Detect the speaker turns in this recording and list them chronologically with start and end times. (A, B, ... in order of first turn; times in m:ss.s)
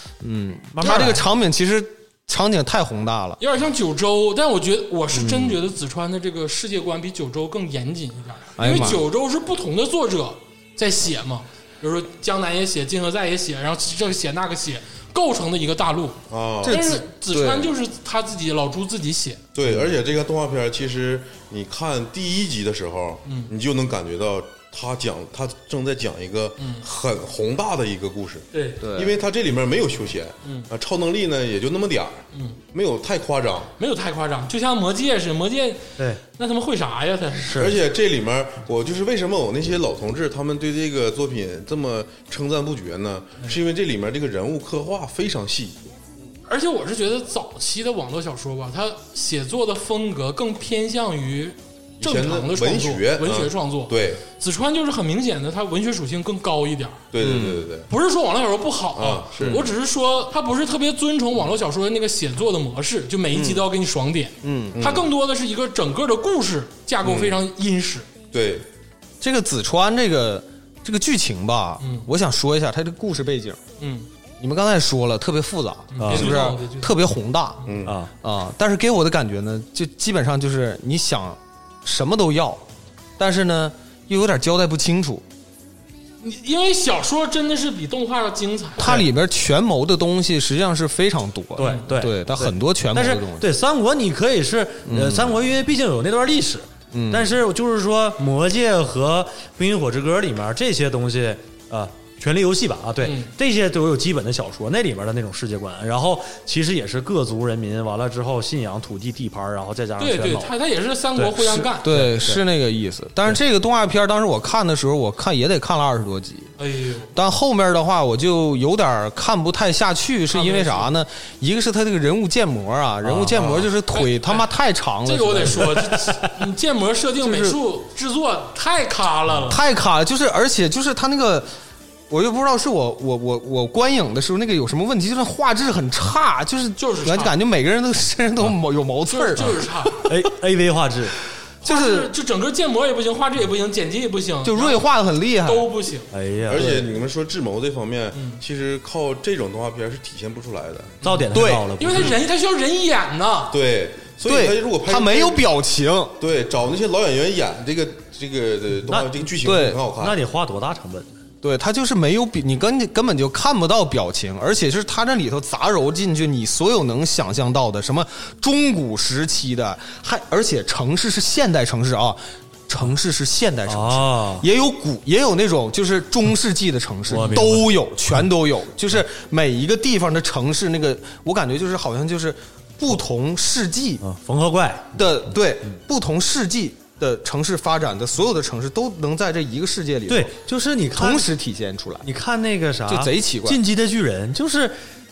0:00.2-0:03.4 A
0:00.8-0:01.2 B
0:00.8-0:01.2 C
0:03.4-0:16.2 C
0:05.1-0:05.6 A
0:08.6-0:09.0 A
0:16.3-0:16.9 D
0:16.6-0:17.7 A
0:16.7-0:19.4 C
0:19.6-0:33.7 D
0:19.6-0:19.9 A
0:23.3-0:23.5 C
0:26.6-0:26.9 C
0:28.5-0:28.8 C
0:28.8-0:29.2 A
0:32.3-0:32.6 C
0:33.8-0:35.8 C
0:36.4-0:37.6 C
0:37.4-0:37.8 B
0:37.6-0:45.9 D
0:46.5-0:57.0 C
0:52.0-0:54.2 D
0:57.1-0:57.9 D
0:57.2-0:57.7 A
0:57.9-1:08.1 C
0:59.0-0:59.6 D
0:59.4-0:59.7 A
1:03.3-1:03.7 A
1:04.4-1:04.8 A
1:04.8-1:05.1 D
1:07.0-1:07.4 D
1:08.3-1:08.7 D
1:09.2-1:13.6 A
1:11.8-1:12.1 C
1:13.8-1:14.1 C
1:14.4-1:17.7 A
1:15.9-1:17.0 C
1:16.0-1:16.4 B
1:17.6-1:18.0 D
1:17.8-1:18.1 B
1:18.2-1:22.6 A
1:23.2-1:25.2 A
1:26.2-1:29.1 C
1:28.8-1:33.5 A
1:31.6-1:31.9 C
1:31.6-1:50.6 B
1:34.9-1:35.4 A
1:36.9-1:37.4 A
1:43.0-1:43.3 C
1:50.0-1:51.9 C
1:51.2-1:56.5 A
1:51.9-1:52.4 B
1:56.6-1:57.1 C
1:57.1-2:06.4 A
2:00.3-2:00.9 C
2:03.2-2:03.7 D
2:03.9-2:04.5 C
2:05.0-2:09.6 C
2:07.2-2:07.6 A
2:09.5-2:11.5 A
2:12.1-2:19.6 A
2:16.8-2:17.4 C
2:19.1-2:20.1 C
2:20.0-2:21.2 B
2:21.6-2:22.1 A
2:21.6-2:24.8 C
2:24.4-2:25.7 A
2:25.4-2:26.1 C
2:26.1-2:26.7 B
2:26.5-2:31.0 D
2:26.5-2:26.9 A
2:28.1-2:28.4 C
2:31.0-2:32.2 B
2:31.3-2:31.7 A
2:31.8-2:33.6 C
2:33.5-2:35.4 D
2:34.2-2:36.1 A
2:36.2-2:40.2 D
2:38.9-2:39.3 B
2:39.4-2:39.8 A
2:40.0-2:41.1 B
2:41.4-3:04.0 A
2:53.7-2:54.5 B
2:57.1-2:57.7 B
3:04.0-3:05.0 B
3:04.9-3:10.4 A
3:10.1-3:11.3 B
3:10.9-3:12.1 A
3:12.0-3:14.8 B
3:12.9-3:13.6 A